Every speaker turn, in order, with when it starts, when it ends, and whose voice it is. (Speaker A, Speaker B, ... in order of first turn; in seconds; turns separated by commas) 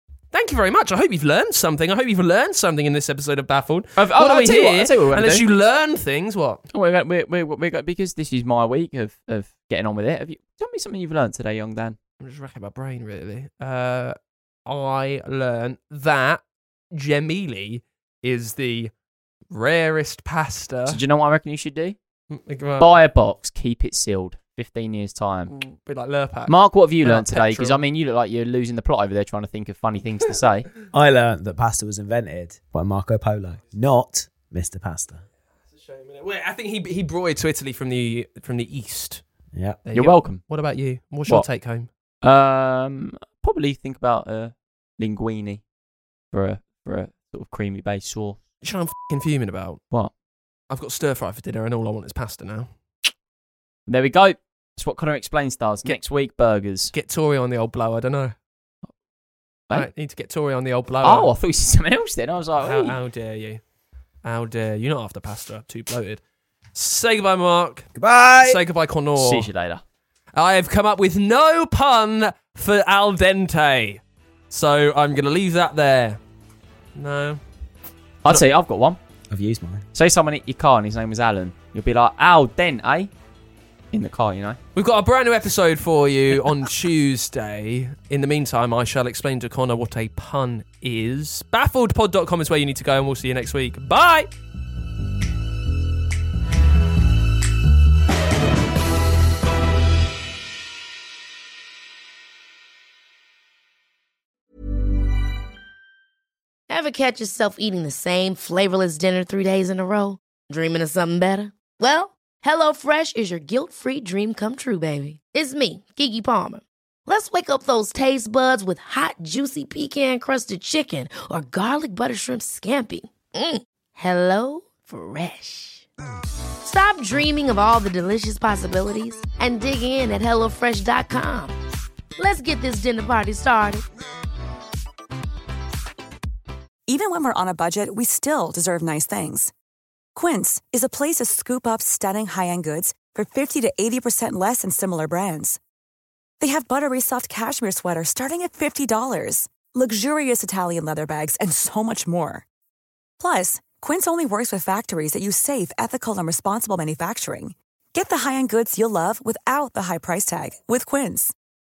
Speaker A: 0.3-6.6, Speaker B: 4.0-5.5, Speaker B: 6.7-12.0, Speaker A: 12.2-14.2, Speaker A: 14.7-16.4, Speaker A: 16.9-18.9, Speaker A: 19.5-21.0, Speaker B: 20.9-22.0, Speaker A: 22.3-22.9, Speaker B: 22.8-25.5, Speaker A: 25.5-27.8, Speaker B: 26.5-30.7, Speaker C: 30.9-35.2, Speaker A: 35.7-39.2, Speaker C: 39.5-39.8, Speaker A: 39.9-41.9, Speaker B: 39.9-40.4, Speaker B: 42.2-45.6, Speaker B: 46.3-48.4, Speaker A: 48.6-49.8, Speaker A: 50.7-53.1, Speaker B: 53.9-56.9, Speaker A: 56.9-58.4, Speaker A: 59.7-61.3, Speaker B: 61.0-62.9, Speaker A: 62.6-63.6, Speaker A: 64.2-66.2, Speaker A: 66.7-67.9, Speaker C: 68.0-68.6, Speaker A: 68.4-69.5, Speaker B: 69.2-69.8, Speaker A: 70.3-76.2, Speaker A: 77.0-77.4, Speaker B: 78.3-79.0, Speaker C: 79.3-79.8, Speaker B: 79.9-83.1, Speaker B: 83.9-84.6, Speaker A: 84.8-94.3, Speaker D: 106.7-125.8, Speaker D: 126.6-131.6, Speaker D: 132.2-133.8, Speaker E: 136.9-139.5, Speaker E: 140.2-145.6, Speaker E: 146.4-152.4, Speaker E: 153.2-161.3